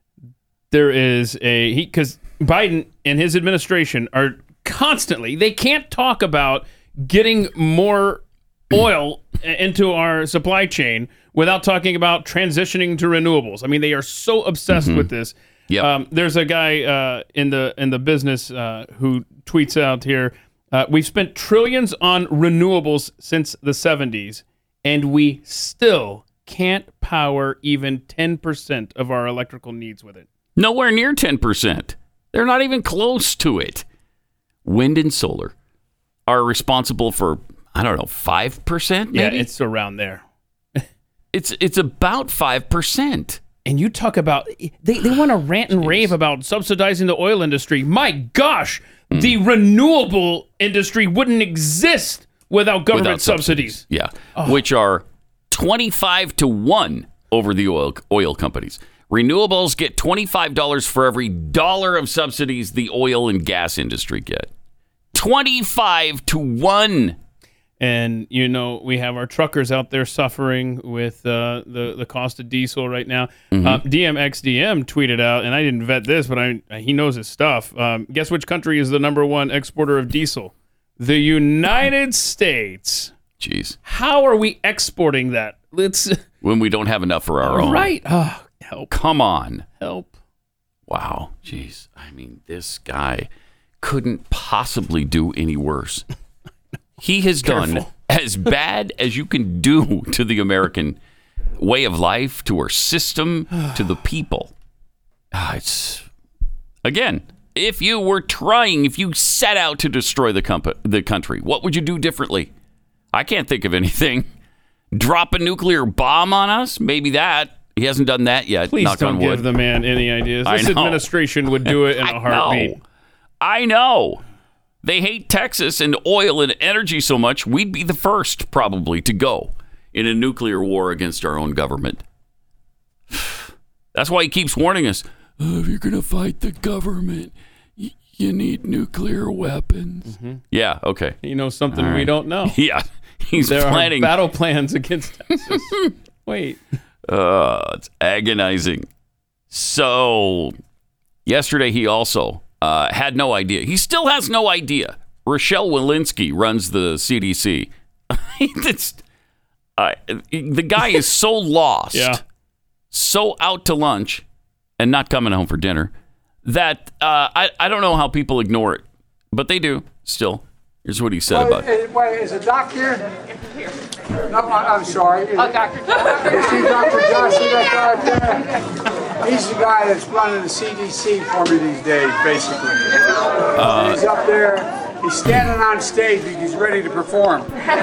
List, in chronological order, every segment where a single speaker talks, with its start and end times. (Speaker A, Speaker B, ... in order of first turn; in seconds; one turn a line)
Speaker A: 0.7-30.3
Speaker B: 14.7-15.1
Speaker B: 30.6-33.9
Speaker B: 34.6-35.5
Speaker B: 36.3-39.5
Speaker A: 39.1-40.2
Speaker B: 41.3-43.4
Speaker A: 43.7-53.8
Speaker B: 45.8-46.1
Speaker B: 49.1-49.4
Speaker B: 52.9-64.5
Speaker A: 54.4-54.6
Speaker B: 65.1-67.2
Speaker A: 67.8-83.1
Speaker B: 73.5-73.8
Speaker B: 83.4-83.8
Speaker A: 83.8-86.2
Speaker B: 86.4-87.9
Speaker A: 87.4-88.9
Speaker B: 88.9-89.7
Speaker A: 89.8-90.1
Speaker B: 90.9-93.3
Speaker B: 93.8-96.1
Speaker B: 97.0-101.0
Speaker A: 97.4-97.9
Speaker B: 101.6-104.5
Speaker B: 105.3-106.0
Speaker B: 106.8-112.5
Speaker B: 113.1-114.3
Speaker B: 114.9-119.5
Speaker A: 118.7-122.8
Speaker B: 120.5-121.1
Speaker B: 121.6-122.8
Speaker B: 123.4-124.2
Speaker B: 124.8-132.0
Speaker B: 133.1-141.2
Speaker A: 140.1-140.4
Speaker A: 141.2-142.6
Speaker B: 141.7-144.2
Speaker A: 143.4-146.6
Speaker B: 145.5-145.9
Speaker B: 147.1-148.9
Speaker B: 149.5-150.6
Speaker B: 151.3-159.0
Speaker B: 159.8-162.2
Speaker A: 161.9-162.2
Speaker B: 162.9-164.2
Speaker B: 164.8-165.9
Speaker B: 166.4-171.7
Speaker C: 171.3-173.0
Speaker C: 174.3-178.5
Speaker C: 179.2-187.5
Speaker B: 183.6-184.0